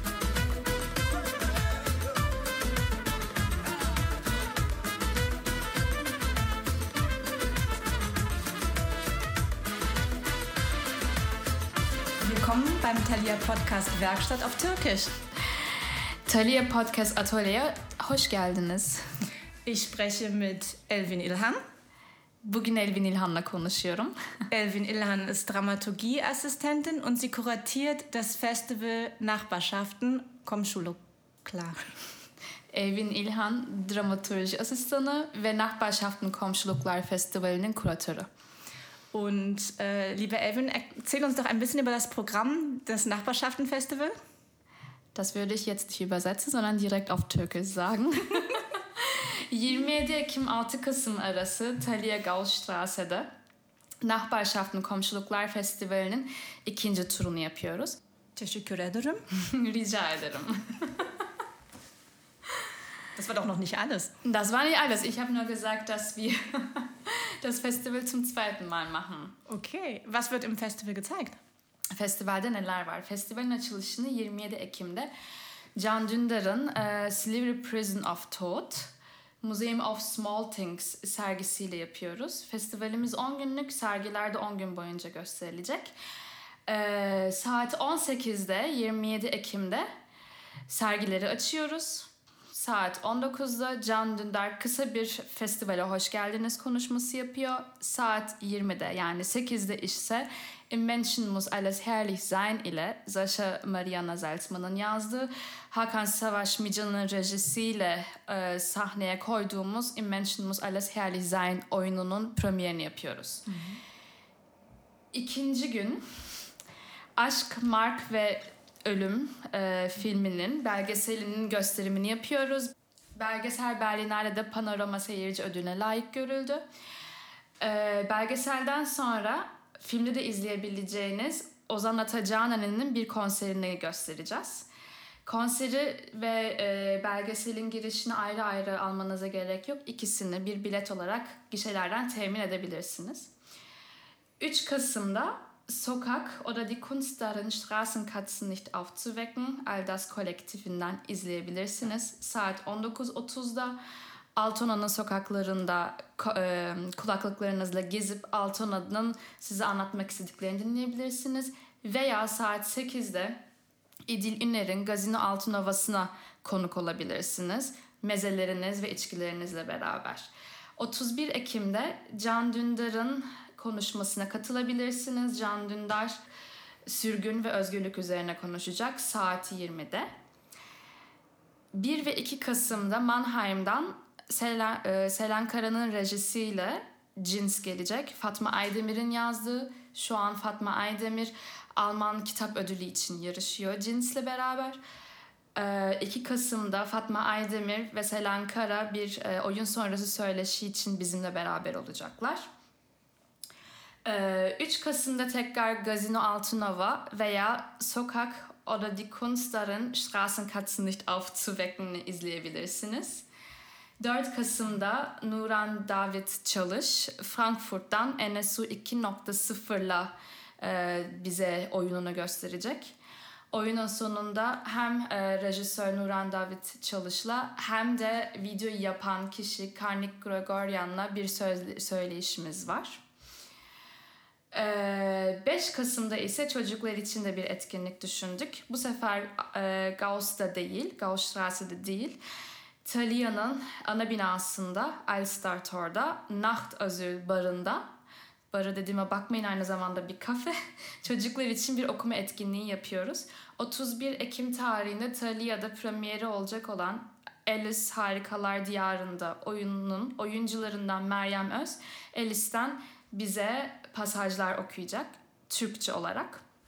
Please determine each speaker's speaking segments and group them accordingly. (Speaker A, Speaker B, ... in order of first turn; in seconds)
Speaker A: 12.2-15.1, 19.6-21.6, 24.5-31.9, 39.1-44.1, 58.4-59.2, 63.1-64.1, 69.5-71.4, 113.5-113.8
Speaker B: 16.3-19.0, 22.4-24.1, 32.7-38.3, 45.1-53.3, 54.0-58.0, 59.3-61.1, 64.2-69.4, 72.0-75.1, 75.8-86.0, 86.7-89.9, 90.7-113.5, 115.1-116.0, 117.2-126.6, 127.6-134.7, 135.2-143.3, 144.4-153.8, 154.3-163.4, 164.1-176.2, 176.9-180.1, 181.7-194.8, 195.5-202.4, 204.0-213.2, 214.0-223.0, 223.5-233.0, 234.5-242.2, 242.8-247.8, 248.5-266.4